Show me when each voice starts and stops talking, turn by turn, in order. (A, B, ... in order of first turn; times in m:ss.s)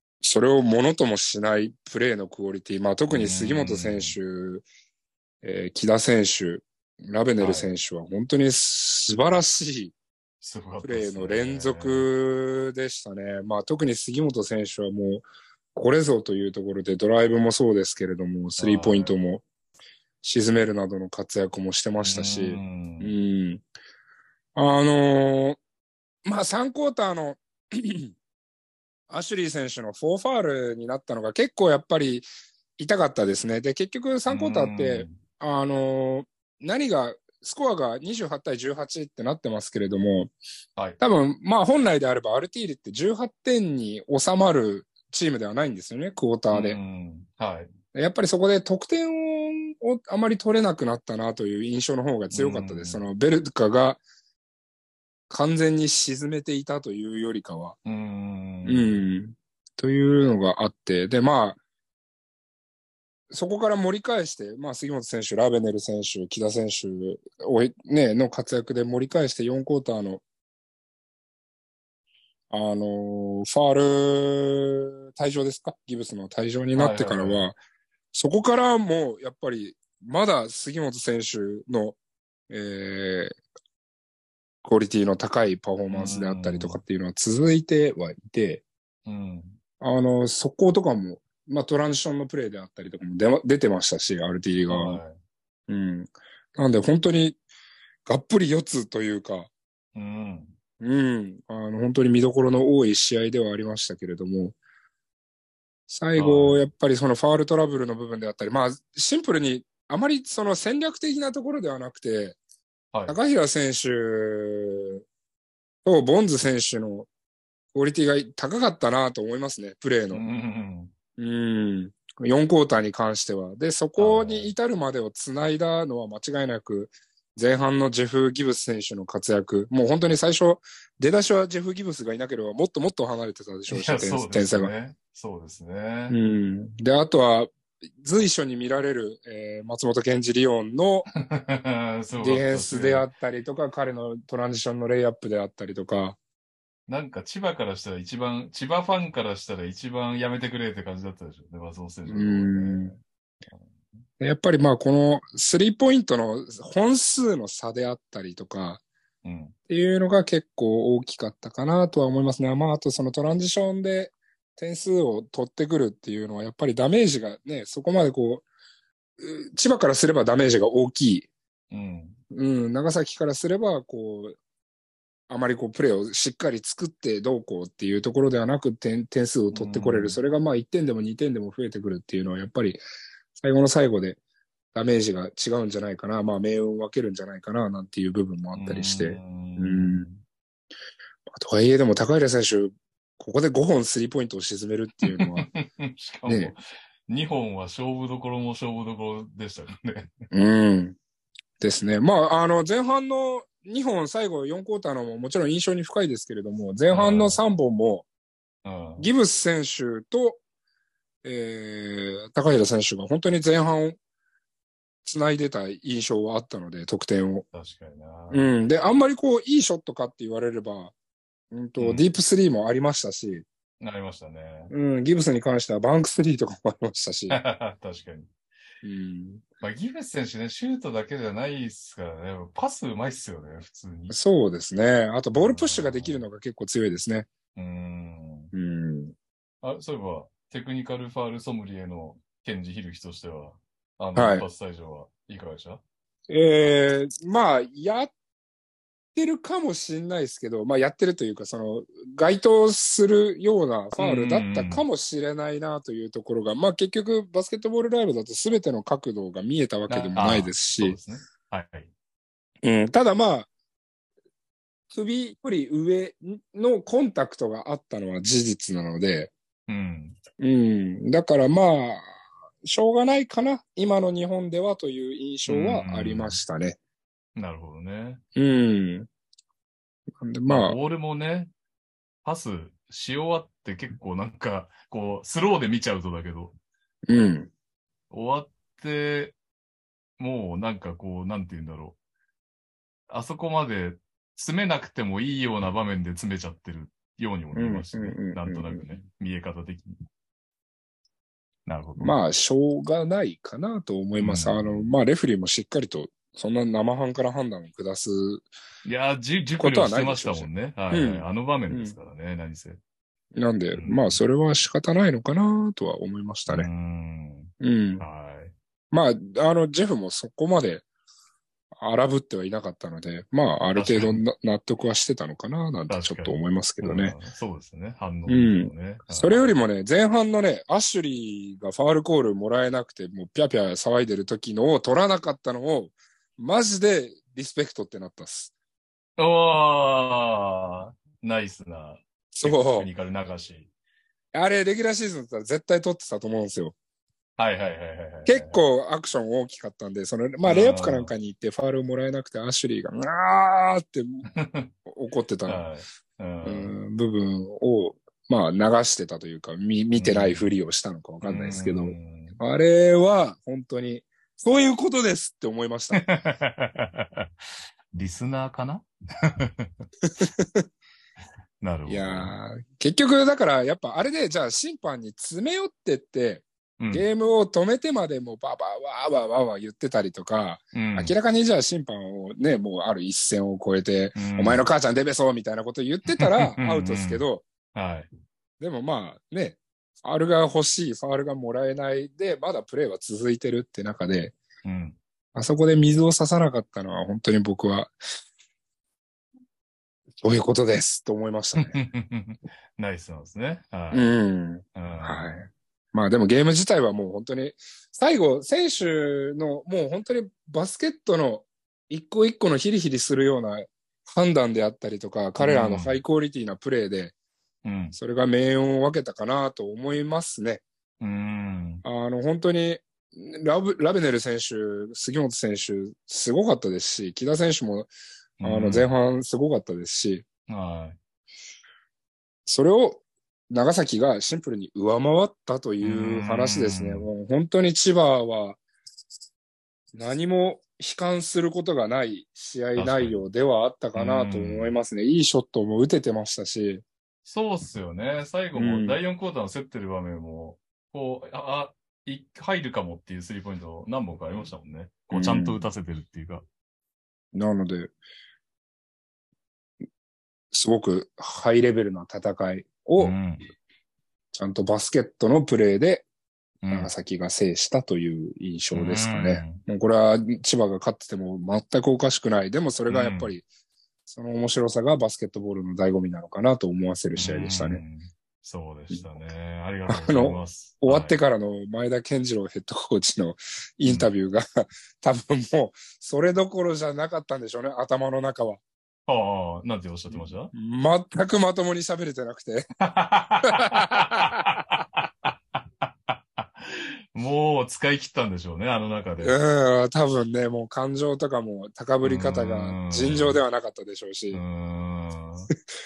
0:00.2-0:04.6 A
0:03.1-0:04.2 B
0:05.4-0:10.0 A
0:07.4-0:07.7 B
0:10.4-0:12.1 B
0:10.8-0:19.4 A
0:18.6-0:19.2 B
0:20.2-0:23.6 A
0:22.0-0:23.2 B
0:24.6-0:25.6 A
0:26.2-0:28.1 A
0:29.1-0:32.3 A
0:32.8-0:40.3 A
0:34.3-0:35.2 B
0:41.0-0:46.8 A
0:46.5-0:47.7 B
0:47.9-0:54.0 A
0:52.3-0:53.0 B
0:55.3-0:57.8 A
0:57.8-0:59.0 B
0:58.7-1:01.6 A
1:03.3-1:10.2 A
1:12.5-1:17.6 A
1:16.8-1:17.5 B
1:18.1-1:22.0 A
1:22.5-1:23.4 A
1:24.6-1:28.6 A
1:25.9-1:26.8 B
1:29.1-1:29.6 B
1:29.8-1:35.0 A
1:34.7-1:35.2 B
1:35.7-1:37.4 A
1:38.1-1:39.5 A
1:40.0-1:40.6 B
1:40.8-1:44.6 A
1:45.9-1:52.4 A
1:46.2-1:46.6 B
1:53.1-1:55.0 A
1:55.8-1:57.1 A
1:57.7-2:00.2 A
2:00.1-2:00.9 B
2:01.2-2:14.7 A
2:04.0-2:04.5 B
2:13.7-2:16.2 B
2:16.1-2:21.1 A
2:21.2-2:23.1 B
2:22.2-2:26.2 A
2:26.9-2:33.0 B
2:32.1-2:33.0 A
2:34.2-2:38.8 A
2:39.2-2:39.6 B
2:39.7-2:48.5 A
2:49.2-2:51.3 A
2:51.7-2:52.2 B
2:52.3-2:54.4 A
2:55.3-3:02.8 A
2:59.5-3:00.2 B
3:03.4-3:04.2 A
3:04.7-3:10.1 A
3:08.6-3:10.2 B
3:11.3-3:15.5 A
3:15.0-3:20.2 B
3:16.3-3:16.5 A
3:20.3-3:21.0 A
3:21.6-3:28.1 A
3:26.9-3:27.4 B
3:28.6-3:29.1 B
3:29.0-3:30.4 A
3:31.2-3:34.0 A
3:35.0-3:37.4 A
3:37.5-3:38.5 B
3:38.3-3:40.9 A
3:41.5-3:43.5 A
3:41.8-3:42.1 B
3:43.8-3:44.7 B
3:44.7-3:47.4 A
3:47.3-3:48.3 B
3:48.8-3:49.4 A
3:49.6-3:54.2 B
3:54.1-3:57.3 A
3:55.4-3:56.2 B
3:57.6-3:58.5 B
3:58.5-3:59.2 A
3:59.6-4:05.8 B
4:04.2-4:04.5 A
4:06.3-4:08.1 A
4:09.2-4:21.0 A
4:14.0-4:14.8 B
4:19.9-4:21.9 B
4:22.6-4:23.5 A
4:24.9-4:29.3 A
4:29.7-4:30.2 B
4:30.4-4:32.1 A
4:32.6-4:36.8 A
4:35.5-4:36.4 B
4:37.4-4:38.2 B
4:38.4-4:39.1 A
4:40.2-4:40.8 A
4:40.5-4:41.5 B
4:42.2-4:46.6 B
4:47.1-4:47.5 A
4:48.1-4:49.4 B
4:50.2-4:52.0 B
4:53.1-5:00.0 B
4:57.5-4:58.9 A
5:01.7-5:02.2 B
5:02.0-5:08.5 A
5:04.2-5:04.9 B
5:08.8-5:12.8 B
5:09.6-5:12.0 A
5:13.4-5:16.7 A
5:13.7-5:14.2 B
5:16.5-5:18.5 B
5:17.6-5:18.0 A
5:18.9-5:20.8 A
5:21.8-5:27.2 A
5:23.8-5:24.2 B
5:25.9-5:29.6 B
5:28.3-5:38.5 A
5:39.2-5:43.7 B
5:42.3-5:42.9 A
5:44.3-5:46.8 A
5:47.4-5:48.6 B
5:48.3-5:54.2 A
5:50.4-5:51.1 B
5:54.3-5:54.7 B
5:54.9-5:55.6 A
5:55.5-5:56.7 B
5:56.4-6:06.0 A
6:00.0-6:00.5 B
6:01.2-6:02.4 B
6:05.9-6:07.3 B
6:07.9-6:09.9 B
6:10.2-6:10.6 A
6:11.6-6:12.4 B
6:11.9-6:27.4 A
6:16.8-6:17.0 B
6:20.8-6:21.2 B
6:24.2-6:24.7 B
6:26.1-6:28.1 B
6:28.6-6:34.4 A
6:34.6-6:35.0 B
6:35.4-6:38.0 A
6:40.2-6:41.8 A
6:41.6-6:44.2 B
6:43.9-6:57.1 A
6:44.8-6:45.4 B
6:55.4-6:56.0 B
6:57.6-6:58.0 B
6:58.0-7:00.6 A
7:01.0-7:01.8 B
7:01.8-7:07.9 A
7:08.4-7:08.9 B
7:08.4-7:10.2 A
7:10.5-7:11.0 B
7:12.5-7:18.6 A
7:15.8-7:17.1 B
7:20.0-7:26.8 A
7:22.8-7:23.2 B
7:24.0-7:24.8 B
7:27.2-7:36.4 B
7:28.6-7:29.0 A
7:35.1-7:35.6 A
7:37.3-7:37.9 A
7:40.5-7:43.2 A
7:43.0-7:43.4 B
7:44.3-7:46.1 A
7:46.6-7:46.9 B
7:46.7-7:53.4 A
7:48.7-7:49.6 B
7:52.9-7:53.3 B
7:54.1-7:57.8 A
7:57.2-8:01.2 B
7:59.9-8:08.6 A
8:03.8-8:04.1 B
8:09.1-8:10.5 B
8:10.1-8:12.7 A
8:12.8-8:19.4 B
8:13.5-8:14.4 A
8:19.2-8:24.4 A
8:22.0-8:23.4 B
8:24.3-8:25.5 B